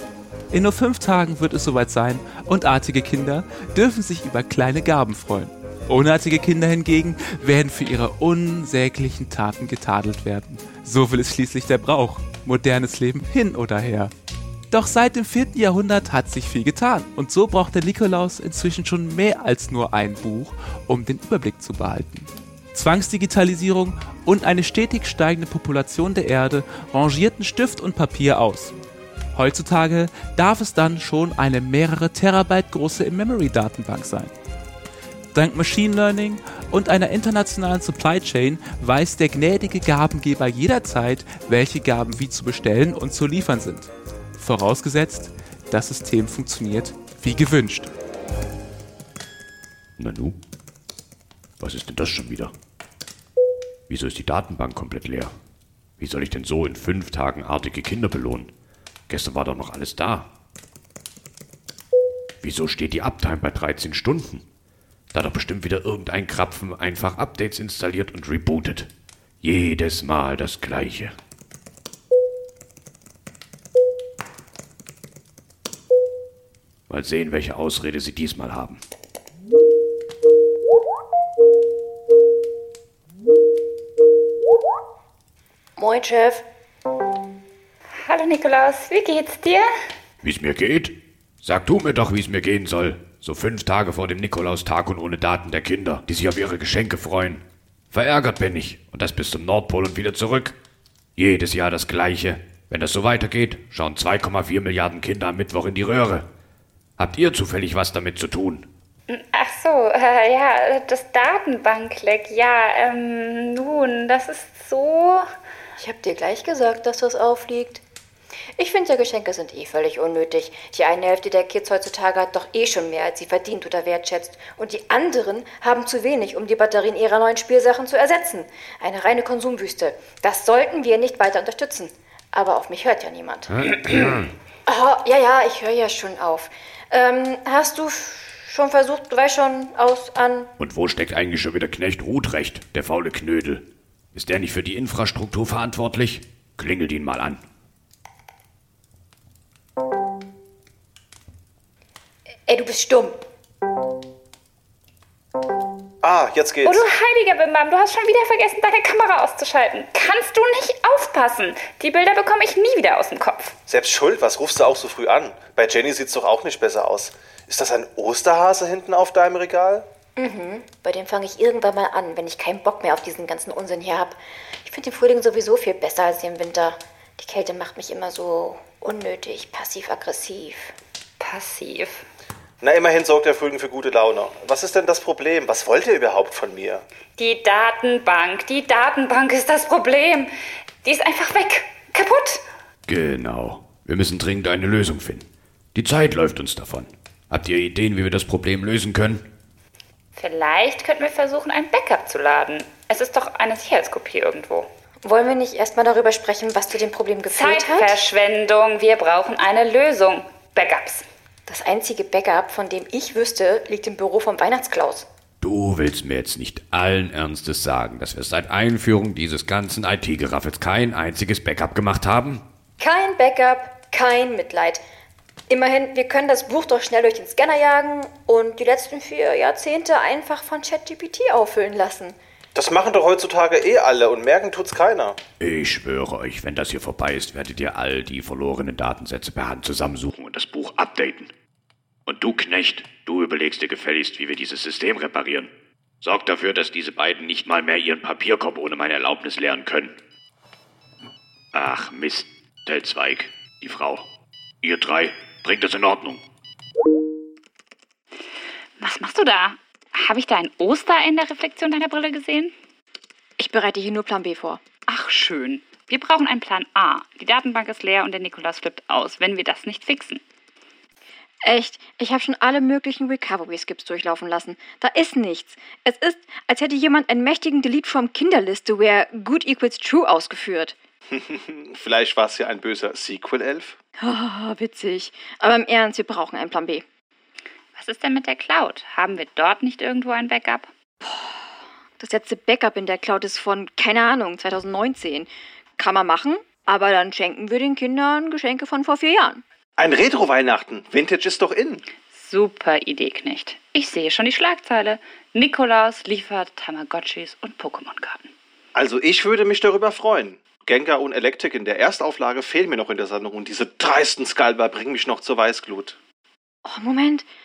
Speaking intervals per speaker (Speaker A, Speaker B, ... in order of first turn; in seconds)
Speaker A: 0.5-14.1, 14.7-28.8, 29.3-34.4, 35.3-47.9
Speaker B: 50.0-50.4, 51.6-52.5, 53.9-55.3, 56.0-58.5, 59.1-60.3, 62.4-64.5, 65.1-68.9, 69.4-71.1, 76.9-78.8, 90.2-100.6, 101.2-106.3, 107.0-108.7, 133.5-134.3, 140.6-147.4, 192.9-199.3, 215.4-222.4, 235.4-241.3, 242.1-250.0, 251.5-254.1, 254.6-256.2
Speaker C: 85.8-86.5, 115.8-117.8, 118.6-133.7, 134.7-140.5, 152.5-153.2, 170.2-180.8, 205.0-208.0, 211.5-215.1, 222.8-224.8, 225.5-232.2, 263.4-264.6, 271.4-280.8, 284.0-286.8, 291.0-291.5, 292.0-299.4, 316.6-317.2
Speaker D: 88.0-89.7, 109.1-115.3, 156.6-163.5, 181.2-182.0, 187.2-190.3, 190.8-192.4, 200.2-204.7, 207.3-211.1, 258.8-262.5, 264.9-270.2, 287.8-290.7, 302.1-308.3
Speaker E: 156.0-156.8, 163.7-169.9, 182.6-186.8, 232.6-235.2, 281.1-283.8, 299.8-301.8, 308.8-316.0